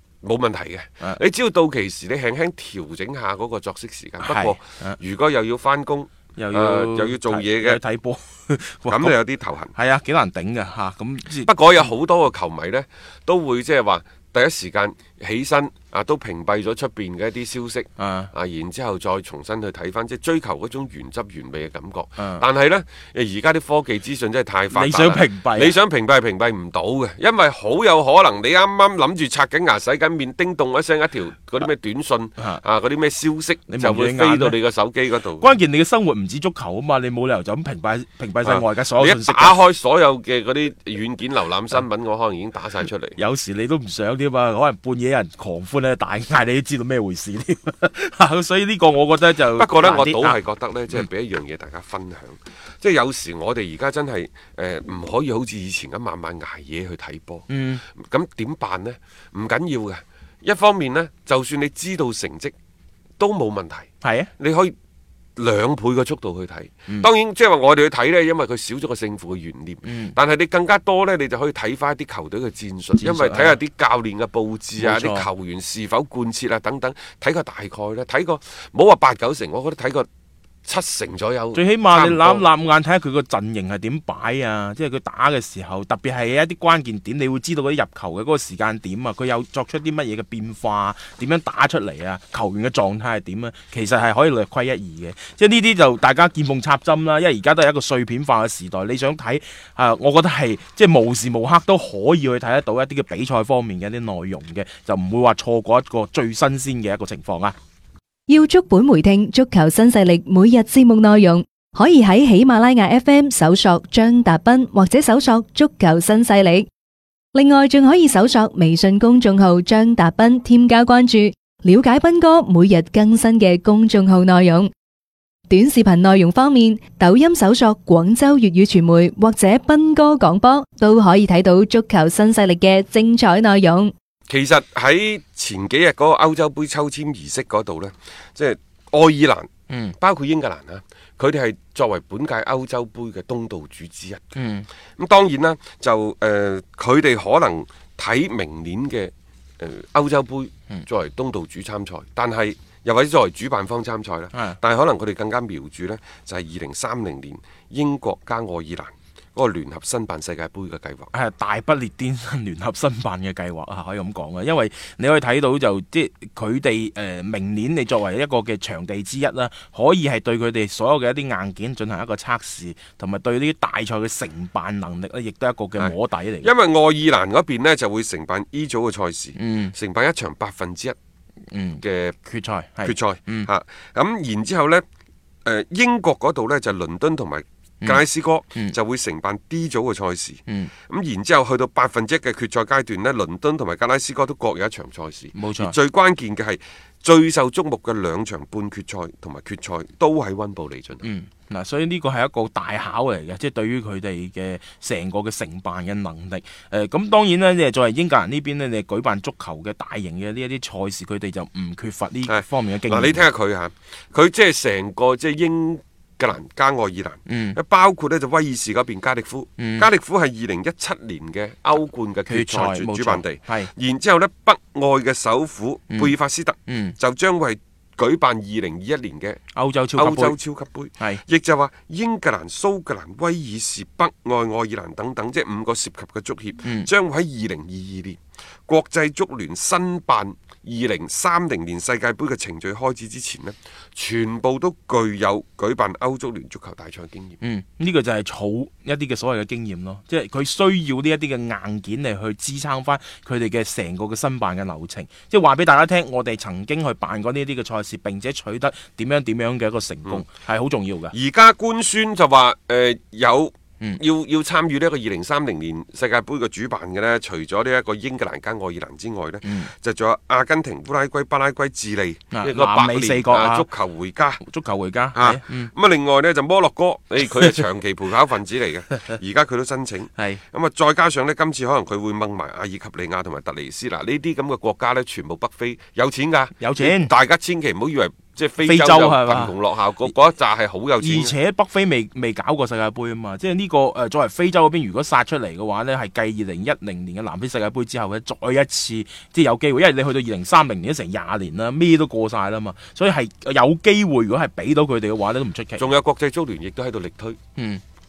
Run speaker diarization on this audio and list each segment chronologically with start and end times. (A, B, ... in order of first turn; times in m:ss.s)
0:00.2-0:07.8 A
0:04.2-0:05.0 B
0:06.4-0:09.2 B
0:08.9-0:09.7 A
0:09.7-0:11.5 B
0:11.4-0:35.5 A
0:18.0-0:18.3 B
0:22.2-0:22.4 B
0:24.7-0:25.8 B
0:33.7-0:34.6 B
0:35.4-0:39.6 B
0:38.4-0:43.2 A
0:43.2-0:50.4 B
0:49.5-1:02.5 A
0:57.5-0:57.8 B
1:03.2-1:04.7 A
1:04.0-1:04.3 B
1:05.4-1:20.1 A
1:09.8-1:10.1 B
1:13.0-1:13.6 B
1:14.8-1:15.3 B
1:20.6-1:22.4 A
1:21.5-1:47.5 B
1:48.3-1:56.7 C
1:57.3-2:04.7 C
2:05.5-2:13.9 C
2:14.3-2:24.3 A
2:19.7-2:19.9 B
2:24.3-2:24.7 B
2:25.0-2:41.1 A
2:41.1-2:56.5 B
2:55.8-3:01.0 A
2:59.4-2:59.7 B
3:01.5-3:03.5 B
3:01.8-3:02.2 A
3:02.8-3:04.8 A
3:05.4-3:21.0 A
3:15.3-3:15.7 B
3:21.0-3:33.3 B
3:32.2-3:49.4 A
3:37.3-3:37.6 B
3:39.6-3:39.9 B
3:42.3-3:43.7 B
3:46.6-3:47.0 B
3:49.5-3:50.4 B
3:50.0-4:07.4 A
3:56.6-3:56.9 B
4:07.4-4:21.1 B
4:21.1-4:34.4 A
4:29.4-4:29.7 B
4:32.3-4:33.7 B
4:34.4-4:35.7 B
4:35.1-4:51.4 A
4:40.2-4:40.4 B
4:46.6-4:47.1 B
4:48.6-4:49.5 B
4:51.0-5:05.9 B
5:05.8-5:07.4 A
5:07.6-5:07.8 B